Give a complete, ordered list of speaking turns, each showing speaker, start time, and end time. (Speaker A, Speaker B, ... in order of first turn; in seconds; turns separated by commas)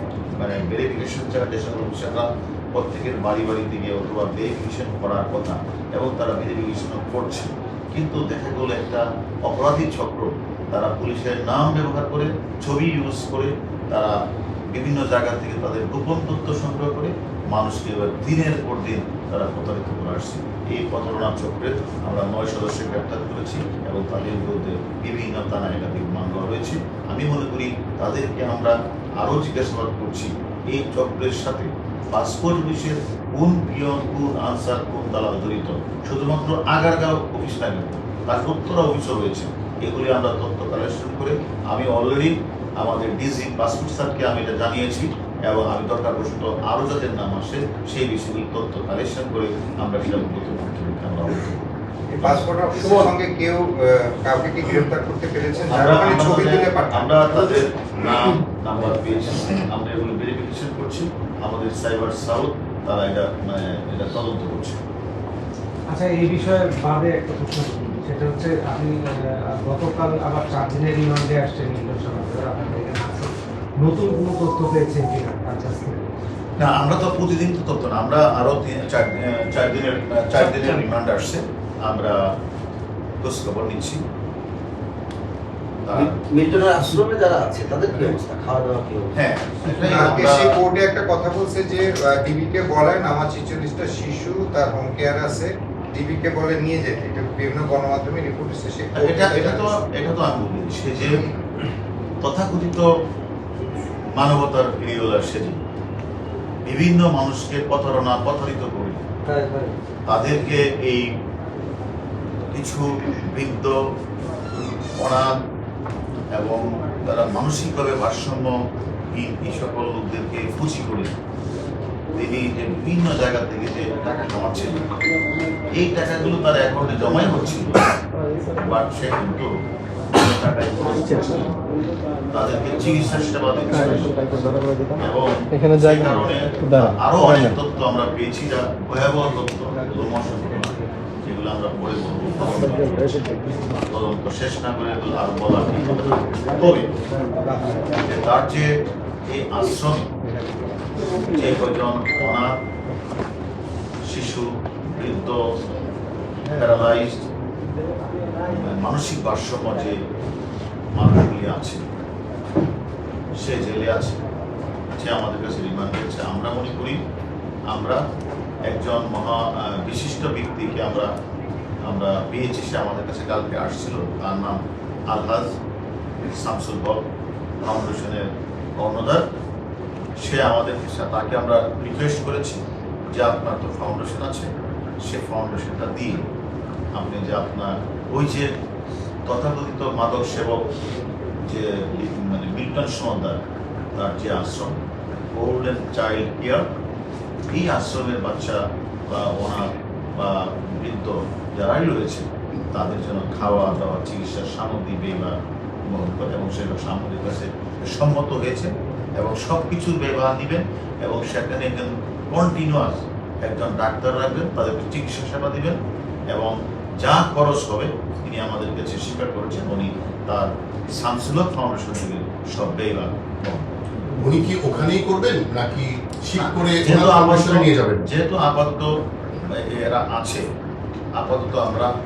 Speaker A: 0.4-14.1, Speaker A: 14.7-51.7, Speaker B: 52.1-57.3, Speaker A: 52.2-52.9, Speaker A: 55.7-64.8, Speaker C: 65.9-76.1, Speaker A: 76.6-82.2, Speaker C: 80.3-80.8, Speaker A: 83.2-84.0, Speaker A: 85.8-86.2, Speaker D: 85.9-89.2, Speaker A: 89.1-90.6, Speaker B: 89.7-99.7, Speaker A: 99.0-101.3, Speaker A: 102.2-102.9, Speaker A: 104.2-105.6, Speaker A: 106.7-109.0, Speaker D: 109.3-109.7, Speaker A: 110.1-111.1, Speaker A: 112.5-113.8, Speaker A: 115.0-115.3, Speaker A: 116.3-118.5, Speaker A: 119.1-121.1, Speaker A: 122.2-124.8, Speaker A: 125.7-127.9, Speaker A: 128.6-129.5, Speaker A: 130.1-131.5, Speaker A: 132.3-134.2, Speaker A: 135.0-140.7, Speaker A: 141.2-143.2, Speaker A: 143.8-146.9, Speaker A: 148.0-148.7, Speaker A: 149.3-150.1, Speaker A: 151.3-152.5, Speaker A: 154.1-155.4, Speaker A: 156.5-157.3, Speaker A: 158.4-160.0, Speaker A: 160.9-161.8, Speaker A: 163.4-164.2, Speaker A: 165.0-167.0, Speaker A: 167.7-168.0, Speaker A: 168.7-171.1, Speaker A: 171.9-174.6, Speaker A: 175.1-175.5, Speaker A: 176.2-177.1, Speaker A: 177.6-178.3, Speaker A: 178.8-179.2, Speaker A: 180.2-182.6, Speaker A: 183.1-184.5, Speaker A: 185.0-186.3, Speaker A: 186.9-188.5, Speaker A: 189.3-190.7, Speaker A: 191.4-193.4, Speaker A: 194.0-194.8, Speaker A: 195.3-196.7, Speaker A: 197.5-205.3, Speaker A: 205.9-215.8, Speaker A: 216.3-223.8, Speaker E: 224.2-228.1, Speaker A: 226.3-228.9, Speaker A: 229.5-230.5, Speaker A: 231.2-231.9